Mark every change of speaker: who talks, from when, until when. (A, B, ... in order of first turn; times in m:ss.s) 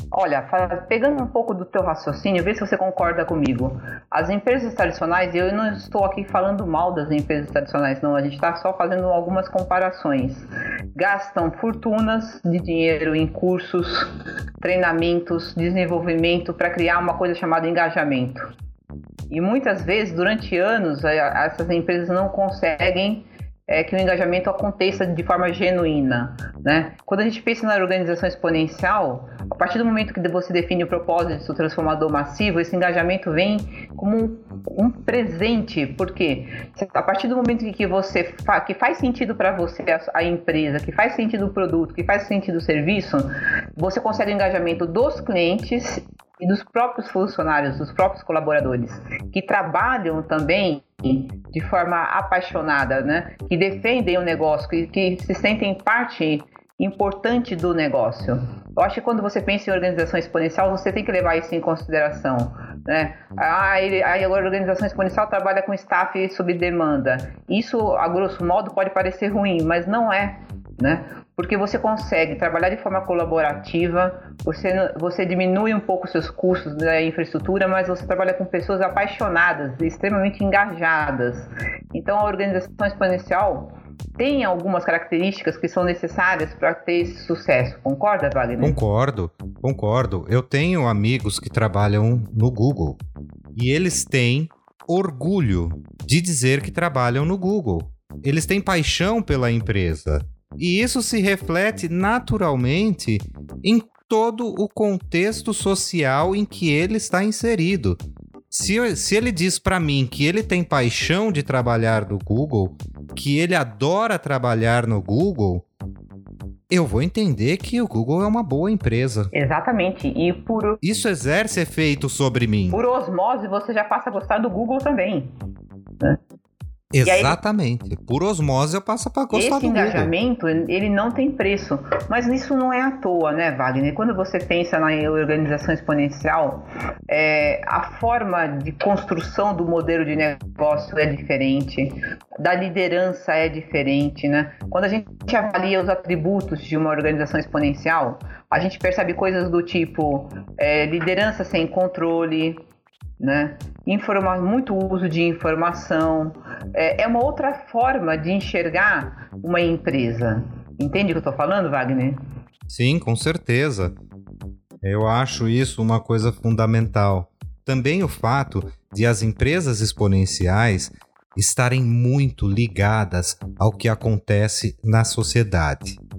0:00.1-0:18.5 A
0:19.3-1:28.8 A
1:28.6-1:33.0 B
1:33.5-1:48.0 B
1:48.5-1:55.6 B
1:56.7-1:59.3 B
1:59.3-2:00.8 A
2:00.8-2:02.8 B
2:02.7-2:05.3 A
2:06.9-2:10.1 B
2:07.0-2:07.4 A
2:09.3-2:32.6 A
2:33.2-2:42.2 A
2:42.7-2:44.0 B
2:44.8-2:56.0 B